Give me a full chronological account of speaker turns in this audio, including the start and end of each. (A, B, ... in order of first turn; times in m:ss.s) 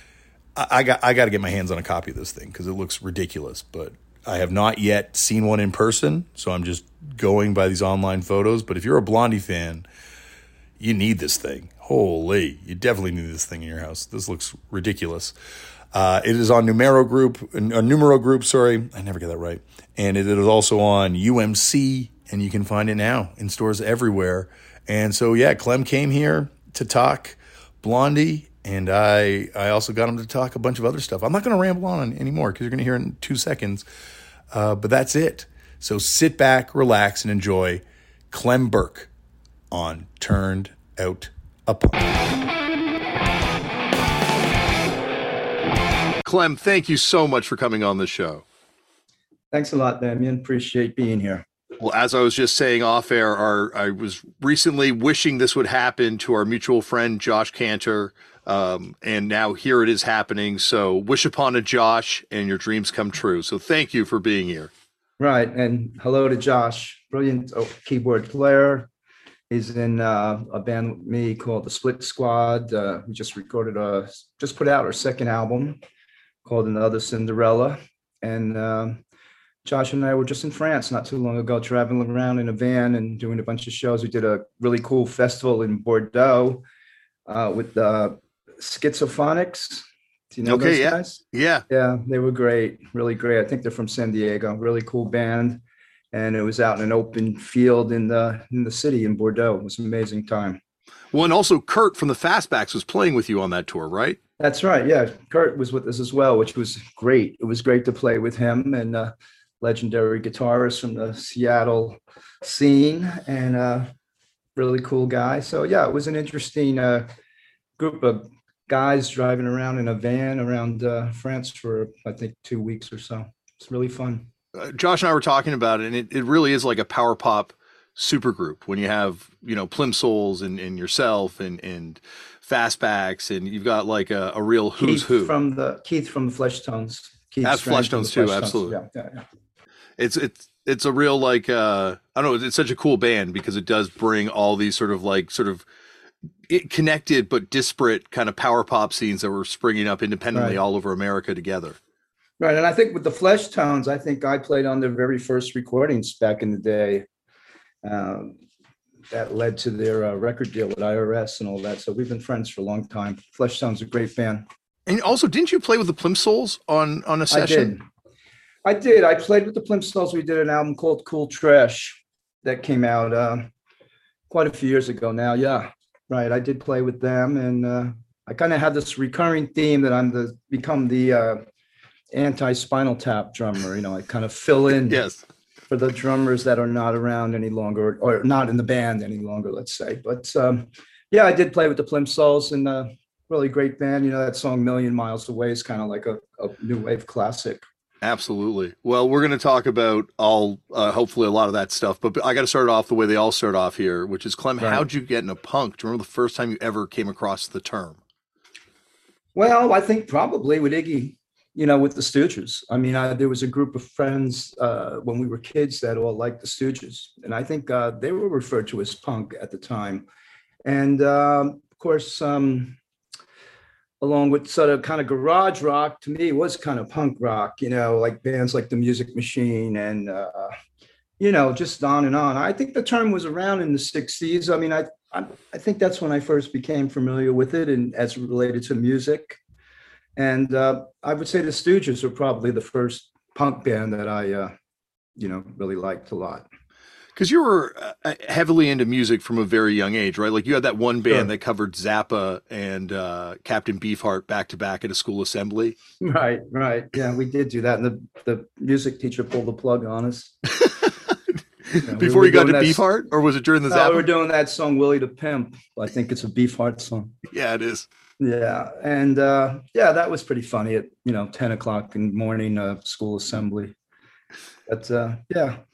0:00.6-0:09.9 A
0:10.8-0:15.3 A
0:15.9-0:33.8 A
0:34.5-0:39.1 A
0:39.7-0:42.1 A
0:46.2-0:48.4 B
0:49.5-0:51.4 C
0:51.8-1:04.7 B
1:05.2-1:08.9 C
1:09.5-1:15.8 C
1:16.4-1:19.0 C
1:19.6-1:26.6 C
1:27.3-1:40.6 C
1:30.4-1:31.6 B
1:41.1-1:44.2 B
1:44.4-1:53.9 C
1:54.6-1:57.1 C
1:57.8-2:04.3 C
2:04.6-2:15.3 B
2:14.8-2:19.2 C
2:17.4-2:18.8 B
2:20.0-2:25.6 B
2:26.5-2:31.8 B
2:30.3-2:30.6 C
2:32.4-2:37.1 C
2:37.8-2:38.4 C
2:39.1-2:44.5 C
2:44.9-2:47.7 B
2:47.3-2:47.8 C
2:48.6-2:53.5 C
2:54.3-3:01.4 C
3:02.1-3:05.0 C
3:04.9-3:05.2 B
3:05.7-3:17.6 C
3:18.0-3:28.0 B
3:24.6-3:24.9 C
3:29.4-3:40.1 C
3:40.6-3:42.8 C
3:44.0-3:50.6 C
3:51.2-3:59.4 C
4:00.2-4:04.5 C
4:05.2-4:06.5 C
4:07.2-4:15.8 B
4:16.0-4:20.4 C
4:20.6-4:20.9 B
4:21.7-4:24.1 B
4:21.8-4:22.8 C
4:23.7-4:27.1 C
4:27.3-4:27.9 B
4:28.2-4:33.8 C
4:34.7-4:35.6 C